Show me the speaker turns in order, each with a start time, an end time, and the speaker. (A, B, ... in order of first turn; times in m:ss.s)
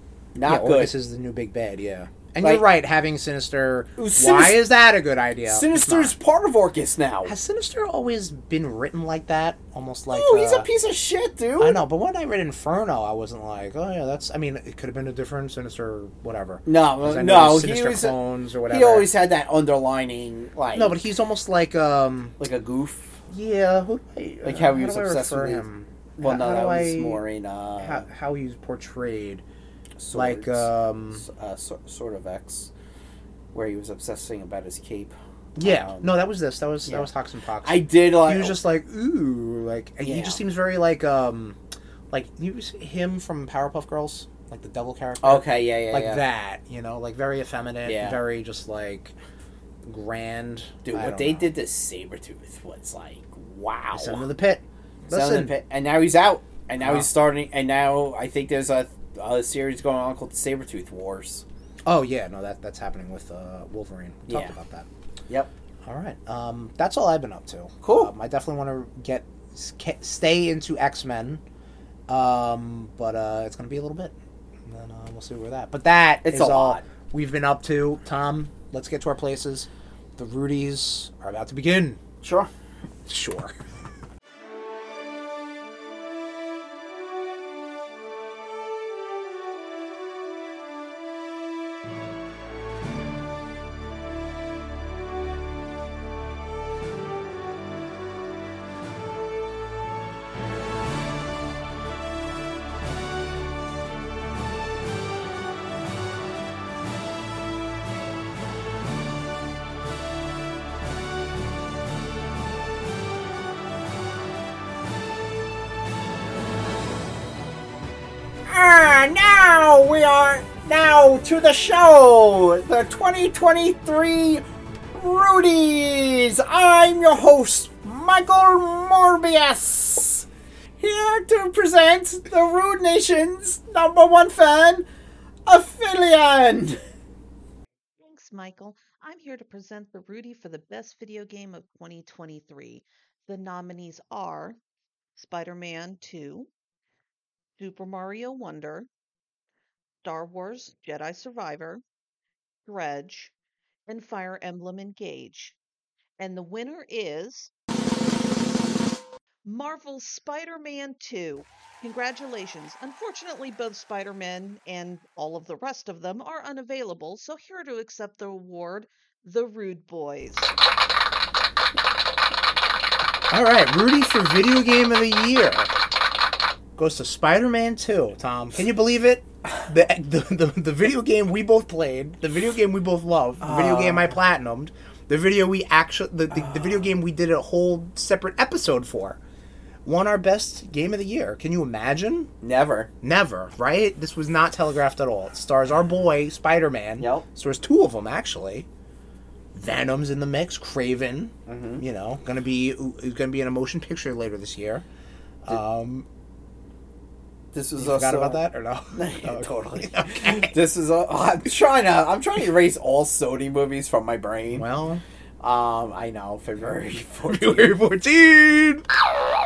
0:00.4-0:01.0 A
0:00.4-0:06.2 B
0:02.4-0:02.7 A
0:04.0-0:04.6 A
0:05.5-0:07.4 A
0:07.2-0:10.7 B
0:10.1-0:11.8 A
0:11.6-0:19.1 B
0:16.7-0:21.0 A
0:20.7-0:22.4 B
0:22.4-0:23.2 A
0:23.3-0:27.2 B
0:24.4-0:25.7 A
0:26.2-0:28.1 A
0:27.8-0:29.4 B
0:30.0-0:32.7 A
0:30.1-0:31.2 B
0:33.5-0:36.1 A
0:35.6-0:41.6 B
0:37.6-0:38.6 A
0:40.0-0:40.4 A
0:42.1-0:49.2 B
0:45.2-0:46.2 A
0:47.8-0:48.2 A
0:49.8-0:51.5 B
0:50.8-0:54.3 A
0:53.9-0:55.5 B
0:55.1-1:01.4 A
0:56.8-0:57.1 B
1:01.8-1:04.9 B
1:04.3-1:04.5 A
1:05.8-1:11.4 B
1:07.8-1:08.1 A
1:12.1-1:14.1 B
1:14.6-1:22.0 B
1:16.2-1:16.8 A
1:22.2-1:22.5 A
1:23.1-1:23.6 B
1:58.5-2:10.3 A
2:10.8-2:14.9 A
2:15.5-2:16.8 A
2:18.0-2:24.6 C
2:25.2-2:26.5 C
2:27.6-2:28.9 C
2:30.0-2:31.8 C
2:32.7-2:33.3 C
2:33.9-2:35.6 C
2:36.2-2:37.5 C
2:39.4-2:50.5 C
2:53.3-2:55.7 B
2:56.8-3:09.2 B
3:03.4-3:04.2 A
3:09.8-3:12.3 B
3:12.4-3:12.9 A
3:13.0-3:18.7 B
3:17.0-3:17.3 A
3:19.5-3:24.8 B
3:21.5-3:21.8 A
3:25.4-3:26.1 B
3:27.5-3:34.7 A
3:27.8-3:30.6 B
3:34.5-3:35.0 B
3:35.4-3:37.8 A
3:37.3-3:38.9 B